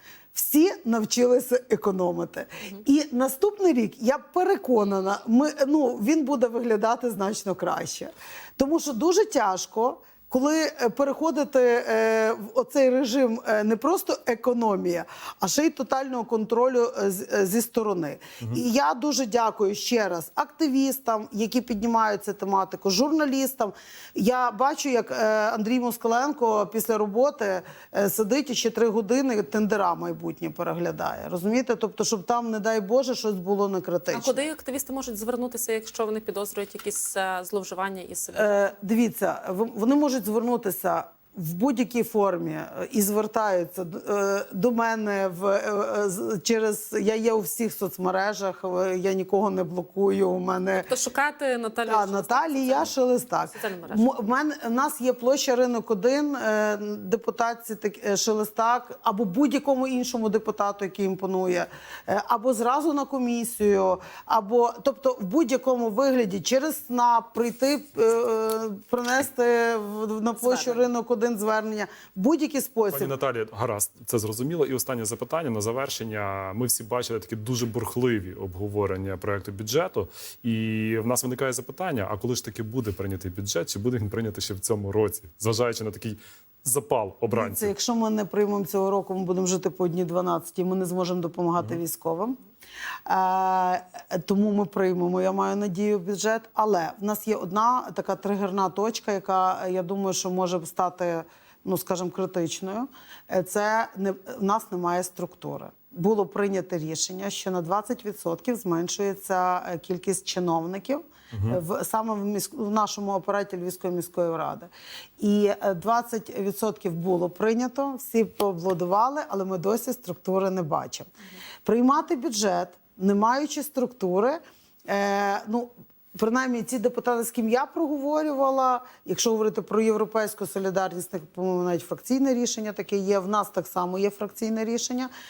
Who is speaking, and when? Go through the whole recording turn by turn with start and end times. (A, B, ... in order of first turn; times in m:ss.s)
0:00.3-0:34.5 A
0:34.1-0:38.6 B
0:38.3-0:50.9 A
0:50.9-0:52.9 B
0:51.8-1:13.1 A
0:53.5-0:54.2 B
1:10.4-1:10.9 B
1:12.9-1:27.7 C
1:27.3-1:32.4 A
1:33.0-2:01.1 A
1:51.3-1:51.6 C
2:01.6-2:15.1 A